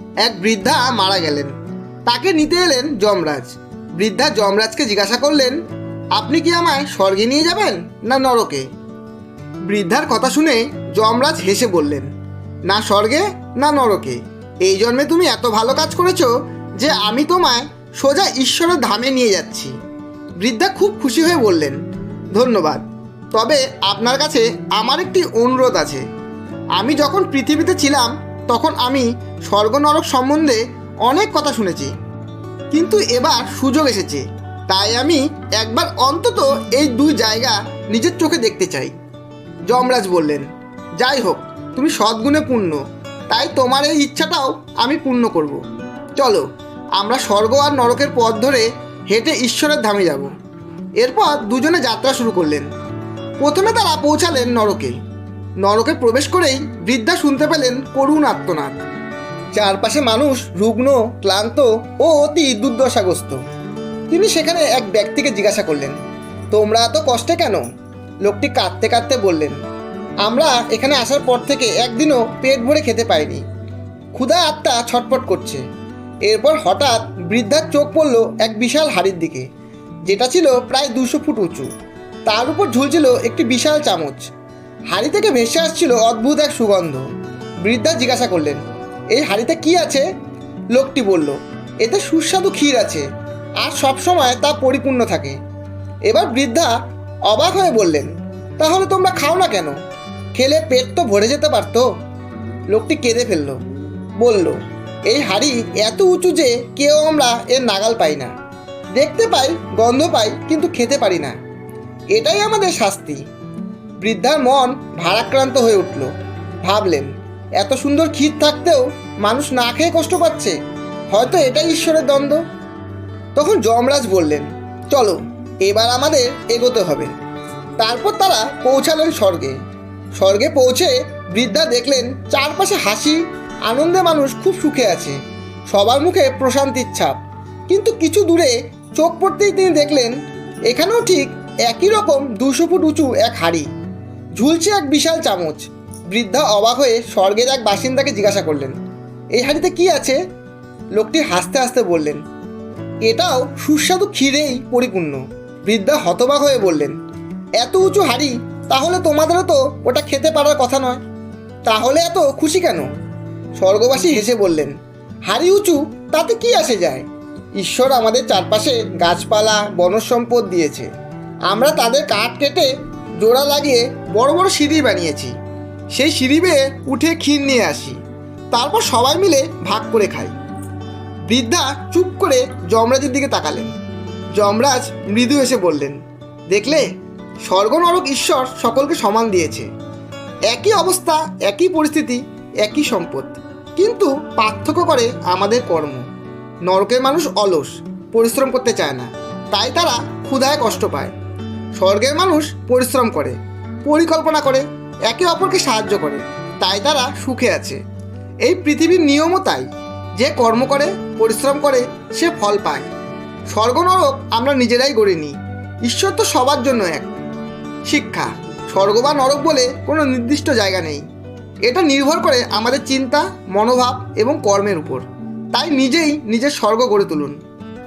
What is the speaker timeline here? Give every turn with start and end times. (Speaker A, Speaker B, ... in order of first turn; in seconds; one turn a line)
Speaker A: 0.2-1.5
Speaker A: 2.1-5.6
Speaker A: 6.1-8.7
Speaker A: 9.7-12.1
Speaker A: 12.7-19.7
Speaker A: 20.4-21.8
Speaker A: 22.4-26.0
Speaker A: 26.8-31.9
Speaker A: 32.7-38.9
Speaker A: 39.7-40.5
Speaker A: 41.0-42.8
Speaker A: 43.3-45.6
Speaker A: 46.2-46.5
Speaker A: 47.0-50.3
Speaker A: 51.0-52.7
Speaker A: 53.4-55.0
Speaker A: 55.6-58.8
Speaker A: 59.5-63.4
Speaker A: 64.1-66.0
Speaker A: 66.5-67.6
Speaker A: 68.2-69.6
Speaker A: 70.2-73.4
Speaker A: 74.1-75.6
Speaker A: 76.3-79.5
Speaker A: 80.1-81.7
Speaker A: 82.3-84.3
Speaker A: 84.9-87.0
Speaker A: 87.6-88.6
Speaker A: 89.1-90.1
Speaker A: 90.7-93.0
Speaker A: 93.6-95.4
Speaker A: 96.1-96.7
Speaker A: 97.3-99.7
Speaker A: 100.3-101.9
Speaker A: 102.7-103.6
Speaker A: 104.2-108.3
Speaker A: 108.9-111.4
Speaker A: 112.1-113.2
Speaker A: 114.0-116.1
Speaker A: 116.6-120.6
Speaker A: 121.1-122.4
Speaker A: 123.3-127.1
Speaker A: 127.8-129.6
Speaker A: 130.2-135.2
Speaker A: 135.7-137.2
Speaker A: 137.7-140.2
Speaker A: 140.7-143.7
Speaker A: 144.4-148.8
Speaker A: 149.3-150.2
Speaker A: 150.9-152.2
Speaker A: 153.1-156.9
Speaker A: 157.6-161.0
Speaker A: 161.7-162.9
Speaker A: 163.6-164.7
Speaker A: 165.3-167.1
Speaker A: 167.6-170.9
Speaker A: 171.5-175.3
Speaker A: 175.9-178.0
Speaker A: 178.5-180.3
Speaker A: 181.3-183.7
Speaker A: 184.4-186.0
Speaker A: 186.5-186.9
Speaker A: 187.5-189.7
Speaker A: 190.5-196.0
Speaker A: 196.7-201.2
Speaker A: 201.8-207.8
Speaker A: 208.4-212.9
Speaker A: 213.5-215.3
Speaker A: 215.9-217.1
Speaker A: 217.9-221.0
Speaker A: 221.7-227.4